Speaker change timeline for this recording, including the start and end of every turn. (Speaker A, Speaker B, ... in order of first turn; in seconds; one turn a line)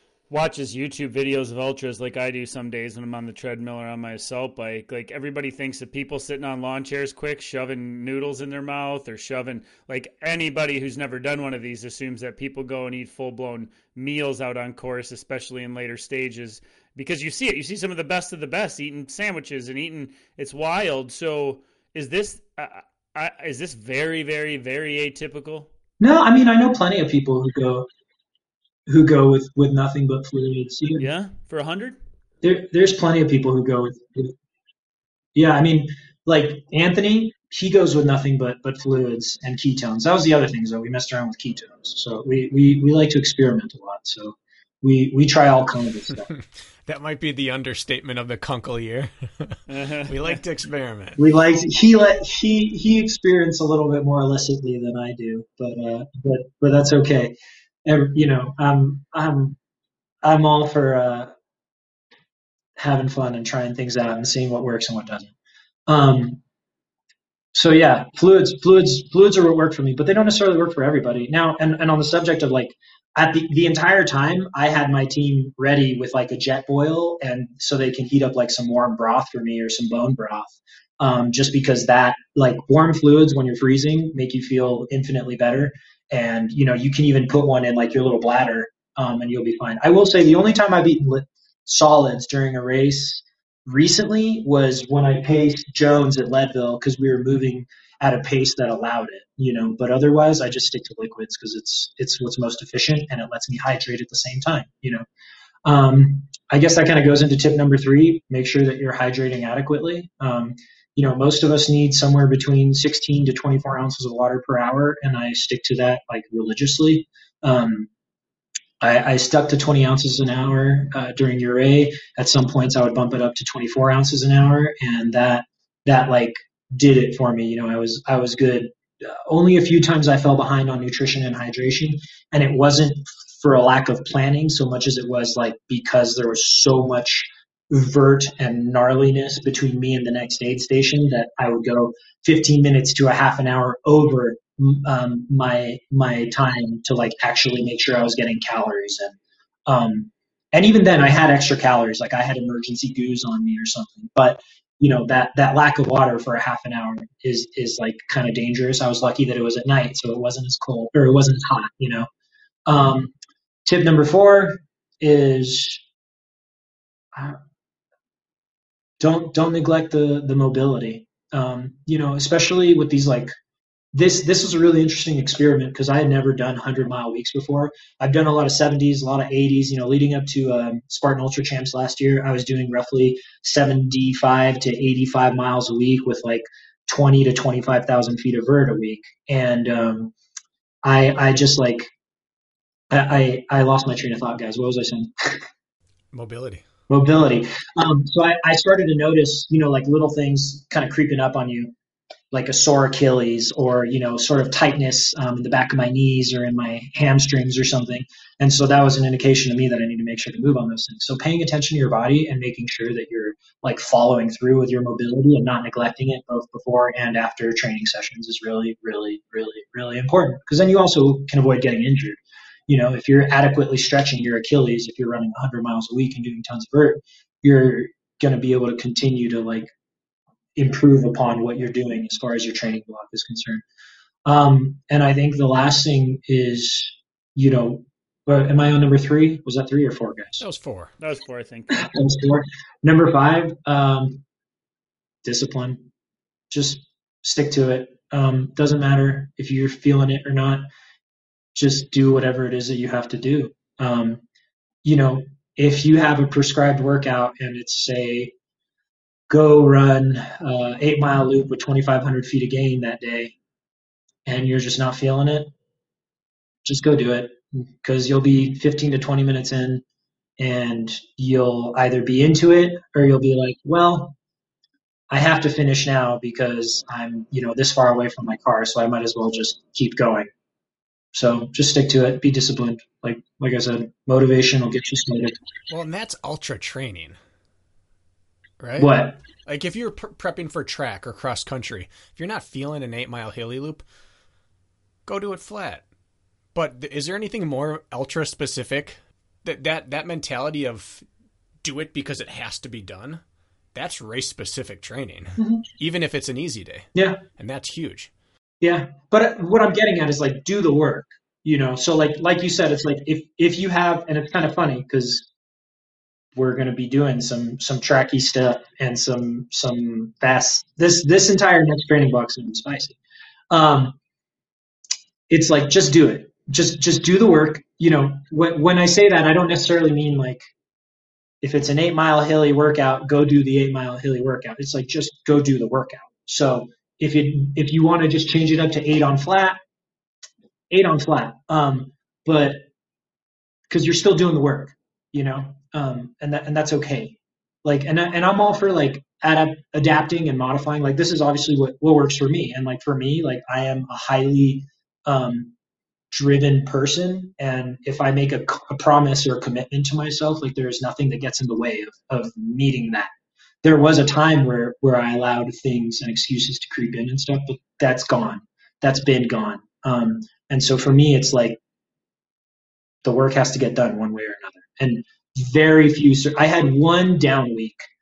Speaker A: 0.3-25.7
Speaker B: 26.0-27.9
Speaker B: 28.9-31.1
Speaker A: 31.0-32.0
Speaker B: 32.4-34.4
Speaker B: 35.4-46.3
Speaker C: 46.9-51.2
Speaker A: 49.7-50.3
Speaker B: 51.2-57.3
Speaker B: 57.9-59.6
Speaker B: 60.2-61.3
Speaker B: 62.8-65.3
Speaker B: 65.9-66.4
Speaker B: 67.5-105.0
Speaker B: 105.7-117.9
Speaker B: 118.8-162.1
Speaker B: 162.7-163.1
Speaker B: 163.7-165.8
Speaker B: 167.1-167.4
Speaker B: 169.0-173.3
Speaker B: 173.9-190.1
Speaker B: 190.8-191.9
Speaker B: 192.9-195.4
Speaker C: 196.1-196.7
Speaker B: 196.9-201.7
Speaker B: 202.3-229.7
Speaker B: 230.6-233.6
Speaker B: 234.3-240.5
Speaker C: 240.4-240.9
Speaker A: 241.0-241.9
Speaker B: 241.7-244.2
Speaker B: 245.2-245.8
Speaker B: 246.5-250.7
Speaker B: 251.6-254.2
Speaker B: 254.8-258.3
Speaker B: 259.3-263.3
Speaker B: 264.3-265.5
Speaker B: 266.6-269.8
Speaker B: 270.4-274.1
Speaker B: 275.1-280.3
Speaker B: 281.1-285.4
Speaker C: 285.7-287.2
Speaker C: 288.6-288.9
Speaker B: 288.8-289.2
Speaker C: 289.4-293.9
Speaker C: 295.1-295.9
Speaker C: 296.5-301.1
Speaker C: 301.6-303.2
Speaker C: 303.7-308.1
Speaker B: 306.9-307.2
Speaker B: 308.6-315.3
Speaker B: 316.4-323.0
Speaker B: 323.5-324.0
Speaker B: 325.3-330.4
Speaker B: 331.4-339.6
Speaker B: 340.7-342.6
Speaker B: 343.7-355.5
Speaker B: 356.1-363.1
Speaker B: 363.6-371.6
Speaker B: 373.0-377.9